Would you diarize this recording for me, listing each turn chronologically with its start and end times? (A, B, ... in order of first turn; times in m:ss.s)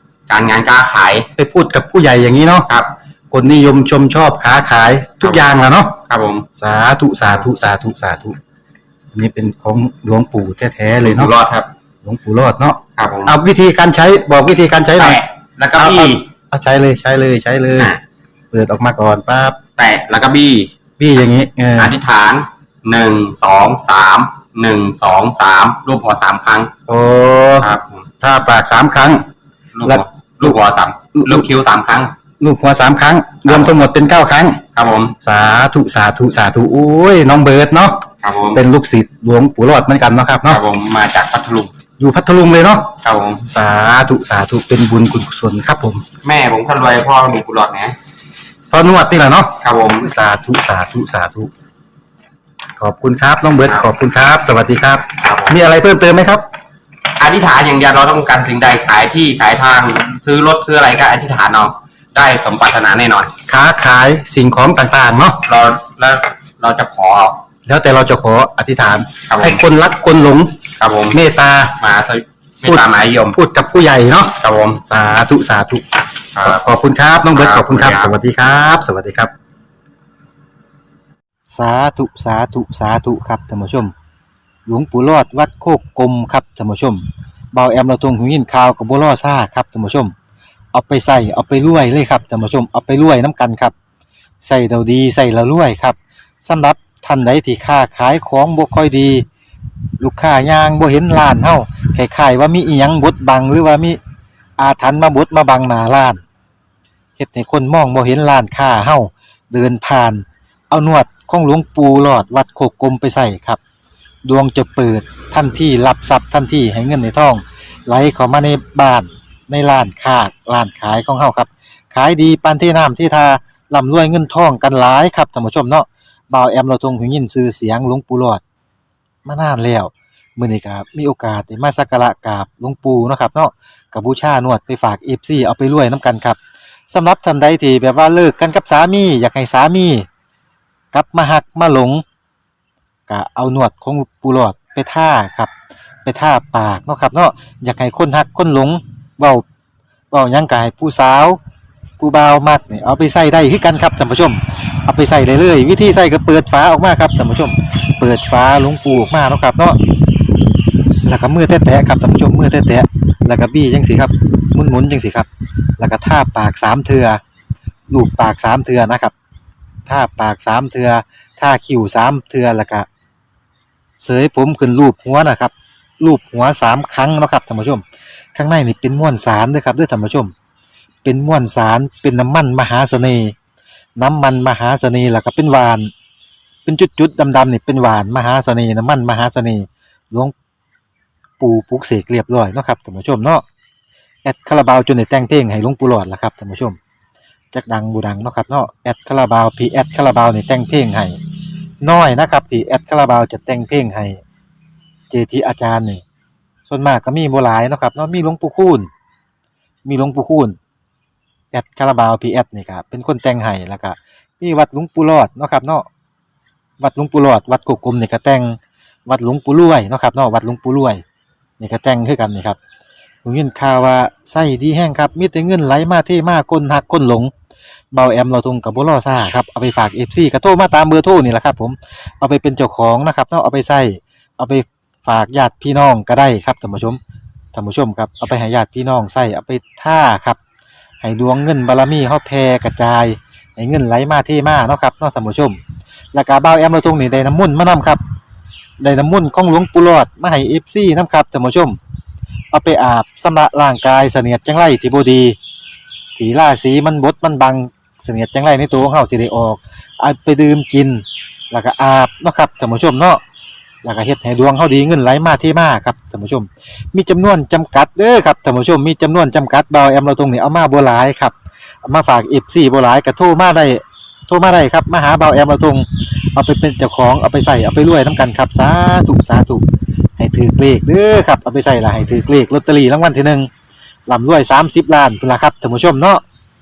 0:00.3-0:01.3 A
0:01.4-0:02.7 B
0:03.3-0:06.0 B
0:05.2-0:05.5 A
0:06.1-0:06.5 A
0:06.6-0:08.4 B
0:09.1-0:11.3 B
0:11.0-0:11.7 A
0:12.0-0:15.2 B
0:13.0-0:13.4 A
0:15.0-0:16.3 A
0:15.8-0:17.9 B
0:17.8-0:18.0 A
0:18.5-0:19.6 B
0:19.8-0:20.7 A
0:21.0-0:22.0 B
0:21.8-0:26.7 A
0:26.9-0:27.7 B
0:27.6-0:28.1 A
0:28.2-0:29.2 B
0:29.8-0:32.1 A
0:29.8-0:30.6 B
0:31.2-0:31.5 B
0:32.4-0:34.6 B
0:33.4-0:33.9 A
0:34.8-0:35.1 A
0:35.2-0:38.0 B
0:38.2-0:38.6 A
0:38.5-0:40.6 B
0:40.4-0:41.7 A
0:42.0-0:42.9 B
0:43.0-0:43.5 A
0:43.5-0:46.0 B
0:46.2-0:48.0 A
0:48.7-0:51.5 B
0:49.6-0:50.1 A
0:52.8-0:56.4 B
0:53.6-0:53.9 A
0:55.2-0:55.6 A
0:57.2-1:03.3 A
1:03.5-1:05.4 B
1:05.5-1:07.4 A
1:07.7-1:10.6 B
1:09.3-1:09.6 A
1:10.8-1:11.2 A
1:11.1-1:11.8 B
1:11.8-1:13.4 A
1:12.6-1:14.4 B
1:14.4-1:14.8 A
1:14.9-1:15.8 B
1:16.4-1:16.7 A
1:16.4-1:19.3 B
1:17.3-1:18.2 A
1:21.5-1:23.9 B
1:24.7-1:30.1 B
1:30.7-1:33.7 B
1:34.4-1:39.3 B
1:40.0-1:44.0 B
1:44.6-1:46.2 B
1:47.2-1:53.6 B
1:54.2-2:08.4 B
2:09.3-2:16.4 B
2:16.9-2:20.1 B
2:20.9-2:22.0 B
2:23.1-2:25.5 B
2:26.0-2:29.4 B
2:30.1-2:31.4 B
2:32.0-2:39.8 B
2:41.0-2:47.2 B
2:47.9-2:49.1 B
2:49.9-2:52.9 B
2:54.0-3:00.3 B
3:01.0-3:03.4 B
3:04.0-3:05.9 B
3:06.7-3:10.3 B
3:11.4-3:13.4 B
3:14.2-3:16.8 B
3:17.5-3:21.2 B
3:21.8-3:24.2 B
3:25.1-3:26.0 B
3:26.7-3:28.9 B
3:29.8-3:30.6 B
3:31.5-3:35.9 B
3:36.8-3:41.0 B
3:41.6-3:42.6 B
3:43.2-3:47.3 B
3:47.9-3:57.0 B
3:57.5-4:00.4 B
4:01.0-4:05.6 B
4:06.1-4:08.0 B
4:08.8-4:11.8 B
4:12.5-4:15.4 B
4:16.2-4:23.2 B
4:23.8-4:39.6 B
4:40.2-4:43.5 B
4:44.1-4:46.2 B